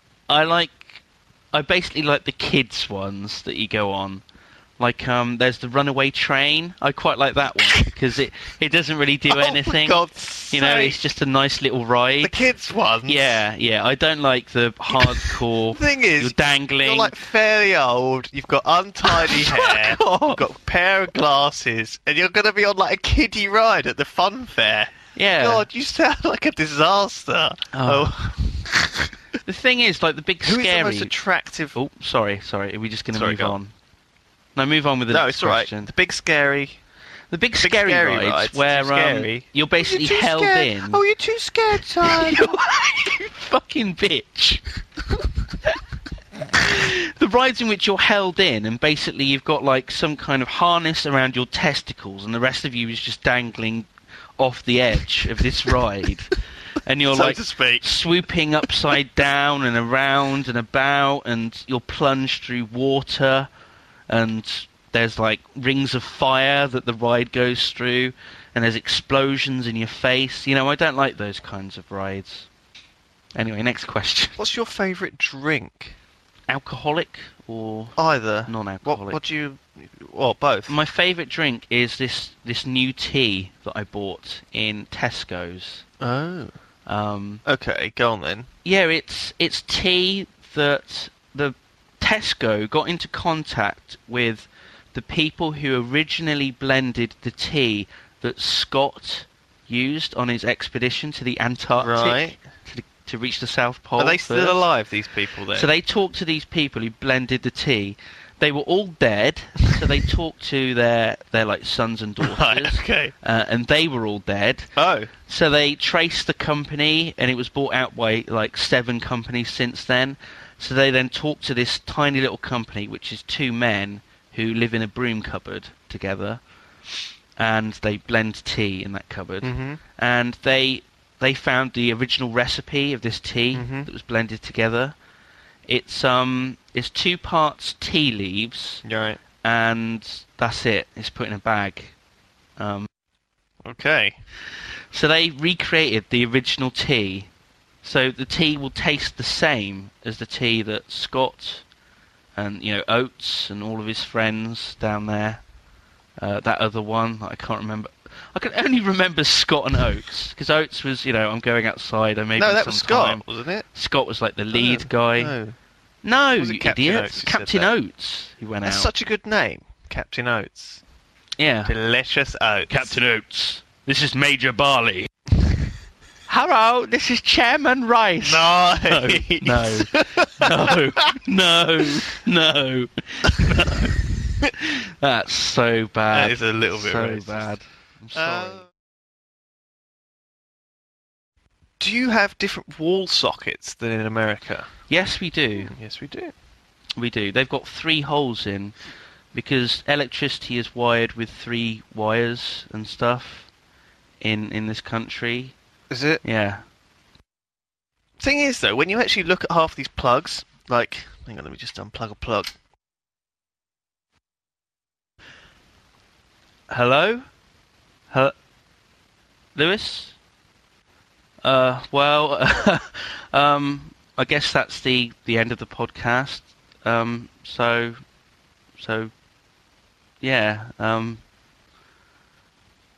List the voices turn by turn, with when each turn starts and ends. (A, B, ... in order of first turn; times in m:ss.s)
0:00.3-0:04.2 A
0:04.8-0:12.4 A
0:09.3-0:11.1 B
0:12.2-0:13.5 B
0:13.1-0:17.2 A
0:14.9-0:29.1 B
0:19.1-0:20.5 A
0:25.1-0:25.7 A
0:27.7-0:28.1 A
0:29.4-0:31.1 A
0:30.4-0:31.8 B
0:31.7-0:33.7 A
0:33.1-0:33.6 B
0:34.6-0:35.9 A
0:35.1-0:36.8 B
0:37.3-0:41.0 A
0:37.6-0:42.4 B
0:42.0-0:44.6 A
0:46.5-0:53.9 A
0:54.4-0:56.3 A
0:56.8-1:03.5 A
0:57.1-0:57.9 B
1:04.1-1:12.5 A
1:13.4-1:14.4 A
1:14.4-1:16.0 B
1:16.5-1:19.2 A
1:18.0-1:20.8 B
1:20.7-1:25.8 A
1:26.0-1:26.5 B
1:26.9-1:27.4 A
1:27.4-1:28.5 B
1:28.6-1:44.7 A
1:41.8-1:42.4 B
1:44.0-1:45.7 B
1:45.6-1:54.7 A
1:52.2-1:53.1 B
1:54.8-1:55.1 B
1:55.2-2:06.4 A
2:07.4-2:15.0 A
2:09.4-2:09.8 B
2:13.6-2:13.9 B
2:15.7-2:18.8 A
2:18.8-2:19.2 B
2:19.4-2:22.0 A
2:22.6-2:22.9 A
2:23.6-2:24.2 B
2:24.9-2:27.3 A
2:27.8-2:31.7 A
2:32.4-2:35.4 A
2:36.2-2:45.3 A
2:42.4-2:43.6 B
2:44.5-2:45.6 B
2:46.0-2:48.9 A
2:46.4-2:47.7 B
2:48.6-2:50.8 B
2:51.4-2:51.7 A
2:51.7-2:53.0 B
2:52.7-2:55.1 A
2:56.3-3:08.6 A
2:58.2-3:00.8 B
3:06.1-3:07.5 B
3:08.2-3:08.7 B
3:11.8-3:14.7 B
3:14.9-3:15.7 A
3:15.6-3:16.3 B
3:17.0-3:18.8 A
3:19.3-3:23.5 A
3:24.2-3:25.6 A
3:25.9-3:26.2 B
3:26.2-3:26.6 A
3:28.2-3:32.5 B
3:36.7-3:37.2 A
3:39.6-3:40.2 A
3:41.4-3:48.0 A
3:48.8-3:49.1 A
3:50.2-3:51.2 A